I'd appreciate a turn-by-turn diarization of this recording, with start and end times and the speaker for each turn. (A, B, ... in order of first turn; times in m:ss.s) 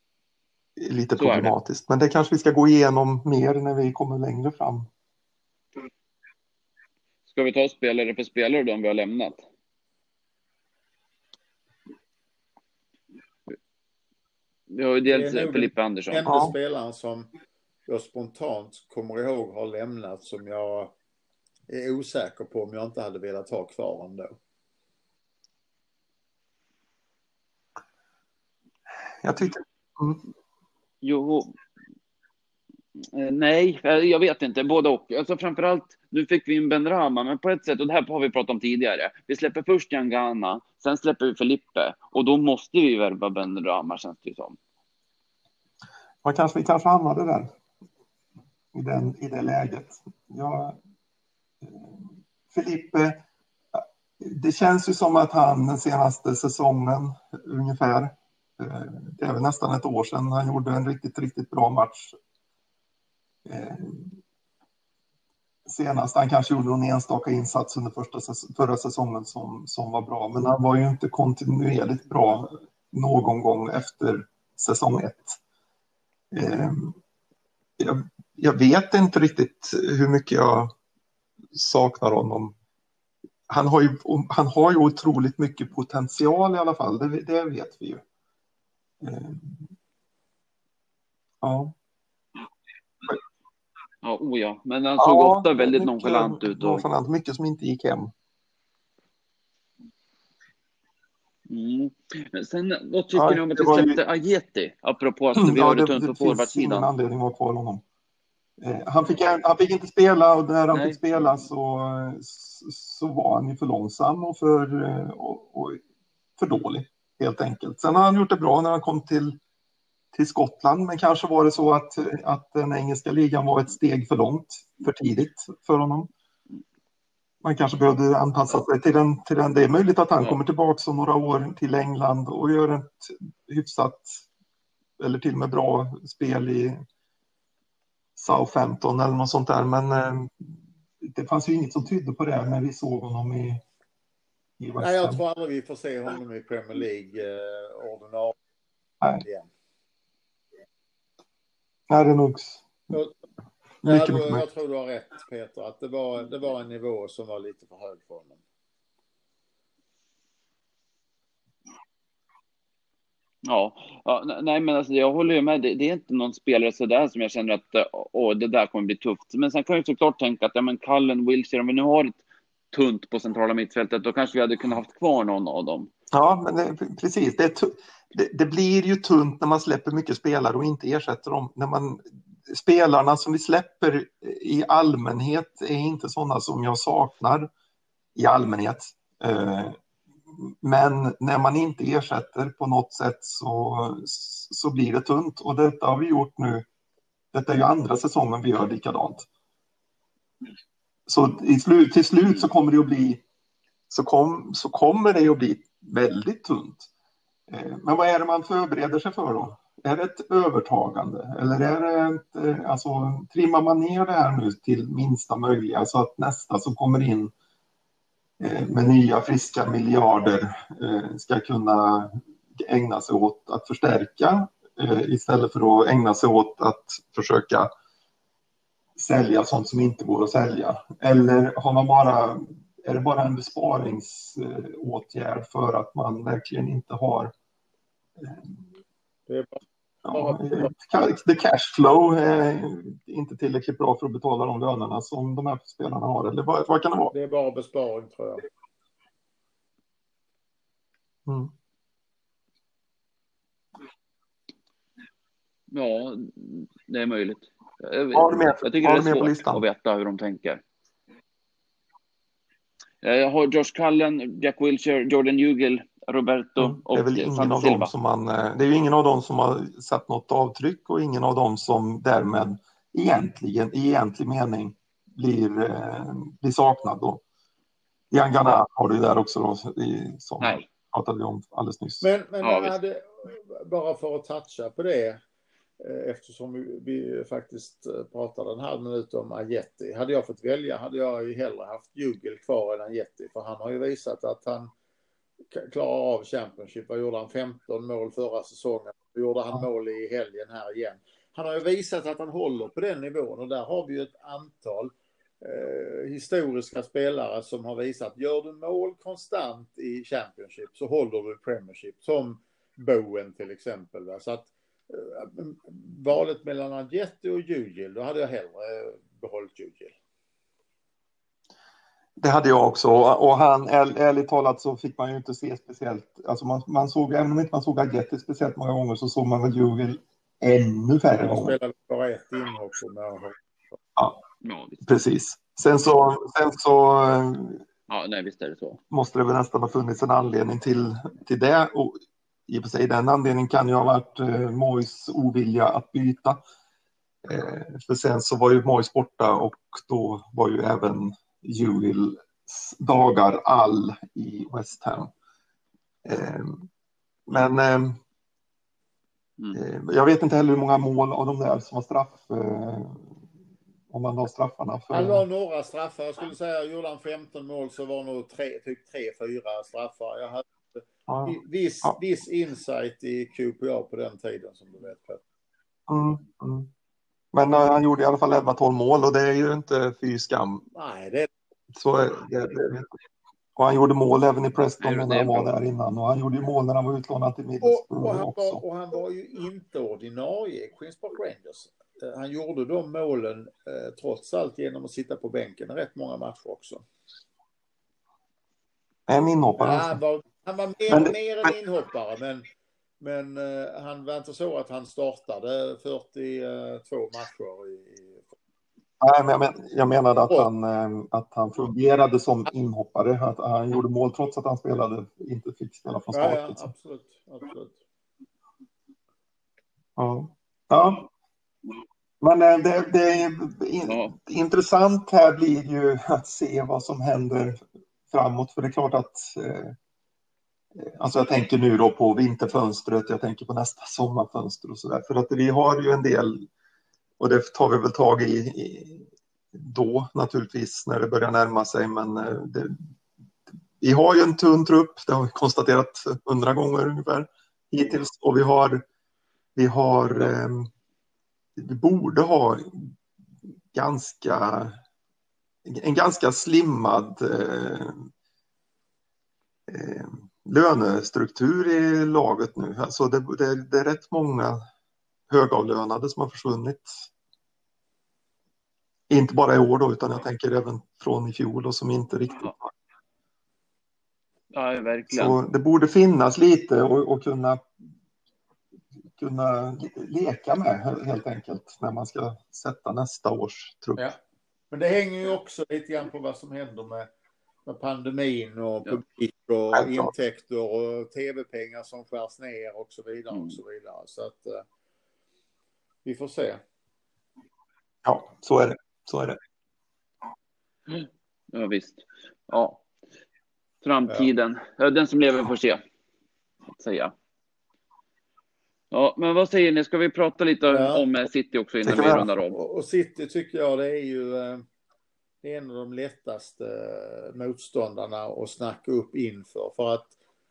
0:00.8-0:04.9 A
0:01.2-0:01.5 B
0:07.3-0:09.4 B
0:14.7-0:16.3 B
0:15.1-0:17.3 C
0:16.3-0:16.5 A
0:17.9-0:21.0 C
0:21.7-0:24.4 C
0:29.2-0:30.2 A
0:31.0-0:31.6 B
0:33.1-0:44.6 B
0:46.2-0:47.5 A
0:48.7-0:50.8 A
0:51.6-1:02.1 A
1:03.4-1:04.2 A
1:05.7-1:15.4 A
1:16.3-1:17.0 A
1:17.8-1:20.7 A
1:21.5-1:22.6 A
1:23.5-1:28.0 A
1:29.0-1:29.7 A
1:31.4-1:31.8 A
1:34.0-1:36.8 B
1:35.0-1:38.1 A
1:41.5-1:46.9 B
1:43.1-1:44.0 A
1:45.4-1:47.8 A
1:48.6-1:55.8 A
1:50.7-1:51.0 B
1:56.4-1:59.4 A
2:00.1-2:06.1 A
2:07.4-2:14.2 A
2:15.0-2:16.8 A
2:18.2-2:23.6 A
2:24.6-2:25.2 A
2:24.8-2:28.4 C
2:29.2-2:29.5 C
2:31.9-2:32.7 A
2:33.8-2:34.4 A
2:33.8-2:38.4 C
2:43.4-2:52.2 B
2:52.7-2:55.9 B
2:56.1-3:07.5 A
3:08.2-3:09.8 A
3:10.3-3:16.7 A
3:17.3-3:19.3 A
3:21.1-3:23.2 A
3:23.9-3:26.9 A
3:27.5-3:37.3 A
3:38.4-3:47.7 A
3:49.0-3:57.3 A
3:58.2-3:58.6 A
3:59.3-4:00.7 C
4:00.0-4:07.1 A
4:07.1-4:08.4 C
4:11.3-4:11.5 A
4:15.7-4:20.6 B
4:18.1-4:19.6 A
4:23.0-4:27.9 B
4:26.6-4:37.2 A
4:38.1-4:42.0 A
4:40.4-4:40.6 B
4:42.0-4:45.2 C
4:42.4-4:42.7 B
4:45.8-4:54.7 C
4:55.5-5:20.0 C
5:22.2-5:31.6 A
5:31.2-5:33.4 C
5:34.0-5:34.2 A
5:34.4-5:34.8 B
5:34.8-5:37.6 A
5:37.9-5:38.8 B
5:38.9-5:46.4 A
5:47.2-5:55.1 A
5:56.0-5:56.7 A
5:57.3-5:58.0 A
5:59.5-6:03.2 A
6:03.9-6:05.2 A
6:04.9-6:15.2 C
6:11.1-6:12.0 A
6:15.9-6:16.7 A
6:17.3-6:20.7 A
6:20.8-6:21.3 C
6:21.8-6:22.9 A
6:23.6-6:28.6 A
6:24.8-6:25.5 B
6:27.6-6:36.8 C
6:39.1-6:40.0 A
6:39.6-6:42.5 C
6:40.9-6:41.5 A
6:43.0-6:48.4 C
6:49.0-6:56.7 A
6:56.1-6:57.8 C
7:00.0-7:01.1 A
7:02.2-7:07.6 A
7:03.9-7:04.1 B
7:08.1-7:09.8 A
7:10.8-7:16.5 A
7:17.2-7:22.8 A
7:23.8-7:28.8 A
7:29.6-7:30.7 A
7:31.6-7:32.9 A
7:33.7-7:34.8 A
7:35.6-7:38.1 A
7:39.7-7:44.6 A
7:45.3-7:47.1 A
7:49.1-7:52.7 A
7:54.5-7:55.4 B
7:55.1-7:57.7 A
7:59.2-8:04.1 A
8:04.7-8:07.1 C
8:07.7-8:14.6 C
8:09.7-8:10.1 A
8:16.0-8:16.6 C
8:18.0-8:19.4 A
8:20.9-8:22.8 B
8:23.8-8:25.8 B
8:26.7-8:27.1 B
8:28.9-8:32.6 B
8:30.7-8:31.0 C
8:31.8-8:32.3 A
8:32.5-8:34.6 C
8:35.4-8:40.1 C